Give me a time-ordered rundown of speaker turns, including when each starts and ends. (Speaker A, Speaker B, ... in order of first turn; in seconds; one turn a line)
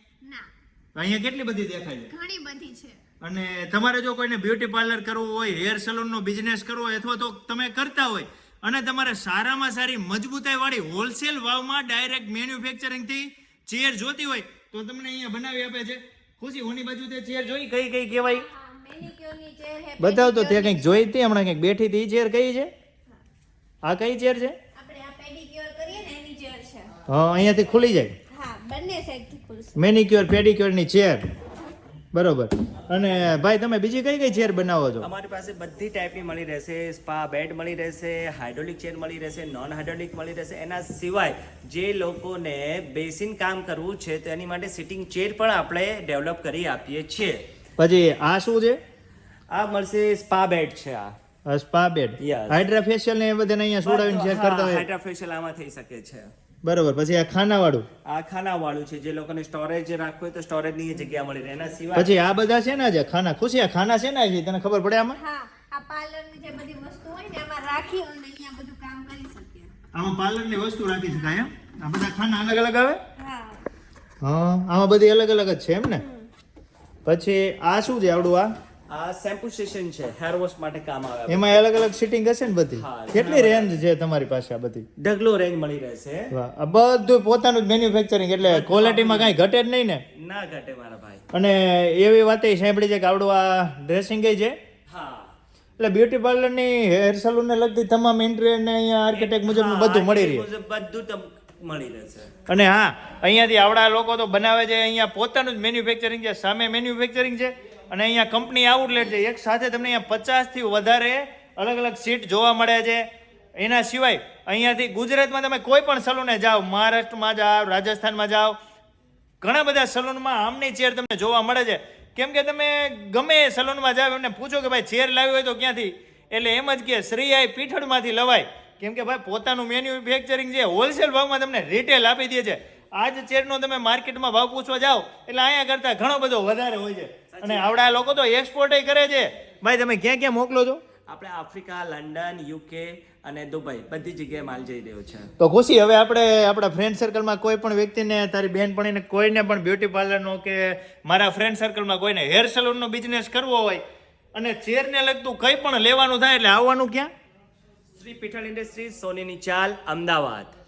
Speaker A: 0.2-0.5
Speaker B: 0.9-2.1
Speaker A: 2.1-3.0
Speaker B: 3.2-18.5
Speaker A: 18.2-21.1
Speaker B: 20.0-22.7
Speaker B: 23.8-24.6
Speaker A: 24.8-26.9
Speaker B: 27.1-28.1
Speaker A: 28.3-29.8
Speaker B: 29.8-31.2
Speaker B: 32.1-35.1
Speaker C: 35.0-47.4
Speaker B: 47.8-48.8
Speaker C: 49.5-51.1
Speaker B: 51.5-54.9
Speaker C: 52.2-52.6
Speaker C: 53.8-56.3
Speaker B: 56.6-57.9
Speaker C: 58.0-62.2
Speaker B: 61.9-65.2
Speaker A: 65.2-69.7
Speaker B: 69.9-73.0
Speaker A: 73.2-73.7
Speaker B: 74.2-76.0
Speaker A: 76.0-76.3
Speaker B: 77.1-78.5
Speaker C: 78.9-81.6
Speaker B: 81.3-84.9
Speaker C: 82.7-83.8
Speaker C: 85.0-86.3
Speaker B: 86.3-90.0
Speaker C: 88.4-89.4
Speaker C: 90.1-91.2
Speaker B: 91.3-94.6
Speaker C: 94.9-95.3
Speaker B: 95.8-100.5
Speaker C: 99.1-102.3
Speaker B: 102.5-113.1
Speaker B: 113.6-118.6
Speaker B: 119.4-140.8
Speaker C: 137.3-137.9
Speaker C: 141.1-145.3
Speaker B: 145.4-153.8
Speaker B: 154.3-157.1
Speaker C: 157.9-160.5